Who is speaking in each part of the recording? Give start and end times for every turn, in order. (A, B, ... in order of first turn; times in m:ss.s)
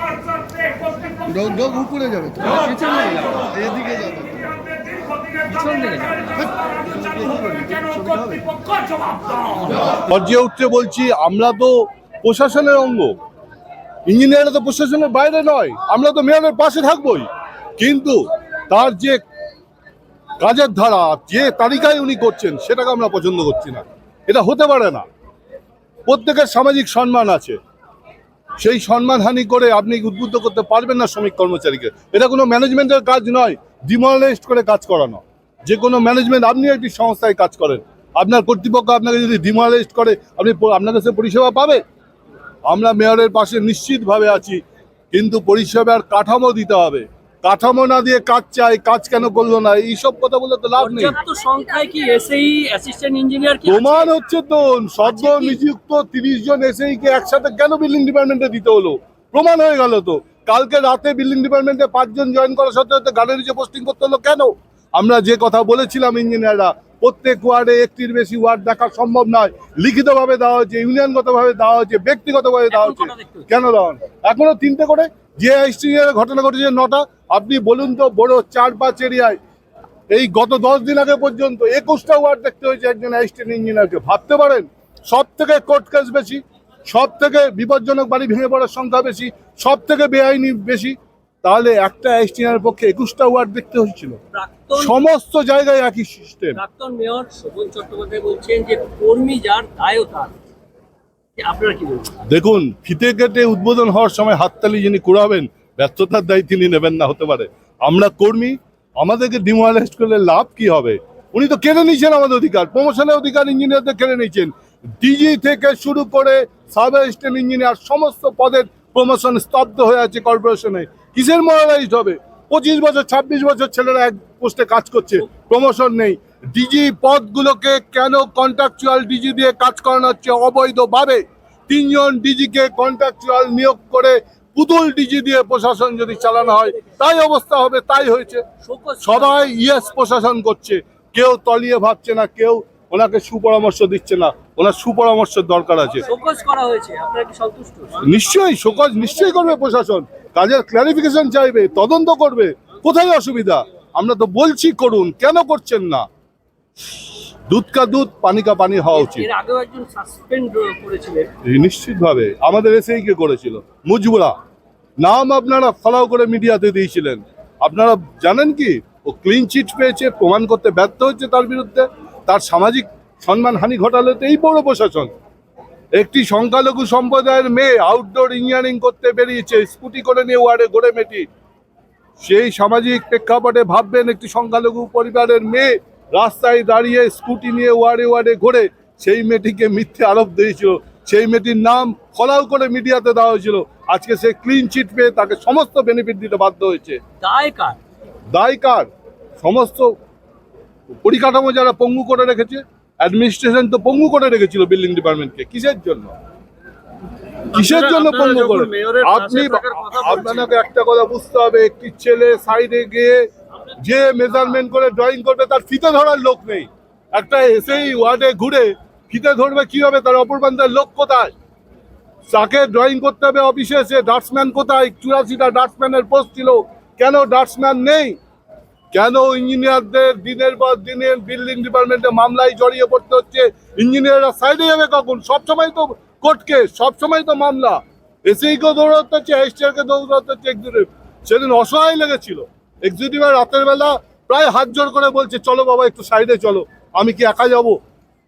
0:01.3-0:04.5 A
0:05.5-0:08.4 A
0:10.0-0:13.2 B
0:14.1-0:17.3 B
0:17.8-0:19.2 B
0:20.4-0:25.0 B
0:26.1-0:27.6 B
0:28.6-0:41.8 B
0:42.7-0:51.2 B
0:50.8-0:54.2 C
0:53.7-1:19.4 B
0:55.0-0:55.6 C
1:12.7-1:13.5 C
1:20.1-1:34.2 B
1:34.3-1:35.0 C
1:34.8-1:36.6 B
1:36.5-1:40.3 C
1:41.4-1:42.2 C
1:42.2-2:18.4 B
2:18.6-2:19.6 C
2:19.0-2:26.1 B
2:26.0-2:28.2 C
2:28.0-2:36.0 B
2:37.5-2:39.3 B
2:38.9-2:41.3 C
2:41.4-2:44.3 B
2:45.0-2:55.1 B
2:56.0-3:01.3 B
3:02.2-3:17.0 B
3:17.2-3:17.8 C
3:18.3-3:19.9 B
3:21.0-3:26.2 B
3:27.5-3:30.6 C
3:27.6-3:33.2 B
3:33.8-3:41.3 B
3:42.3-3:48.2 B
3:48.9-4:07.8 B